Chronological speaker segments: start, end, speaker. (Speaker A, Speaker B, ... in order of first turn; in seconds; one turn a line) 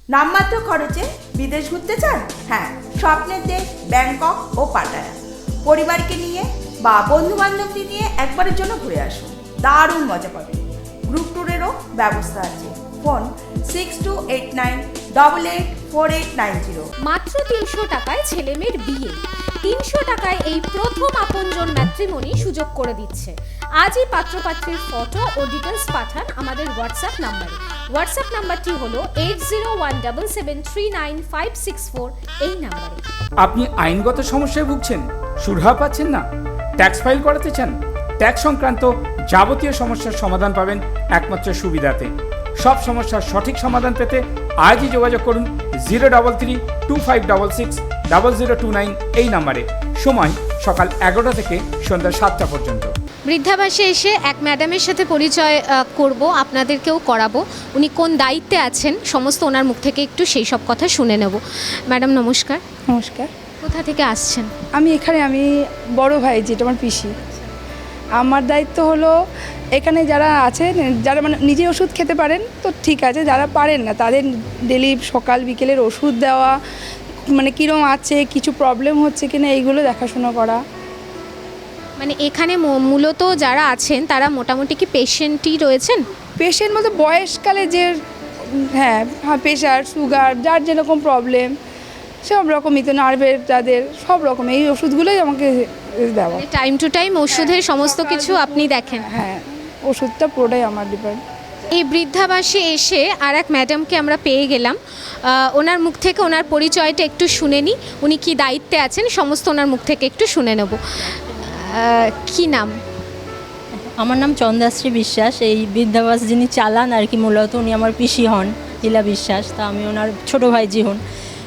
Speaker A: 0.1-16.9
Speaker B: 17.0-33.0
Speaker C: 33.4-36.2
Speaker C: 36.8-42.1
Speaker C: 42.6-52.9
Speaker B: 53.3-62.6
Speaker D: 62.9-63.3
Speaker B: 63.6-64.5
Speaker D: 64.8-67.3
Speaker D: 68.2-69.1
Speaker D: 69.8-76.5
Speaker D: 77.3-80.6
Speaker B: 82.0-86.0
Speaker D: 86.4-88.0
Speaker D: 88.5-91.5
Speaker D: 92.2-96.4
Speaker B: 96.3-99.0
Speaker D: 97.3-101.2
Speaker B: 101.7-110.8
Speaker B: 111.5-112.7
Speaker E: 114.0-121.0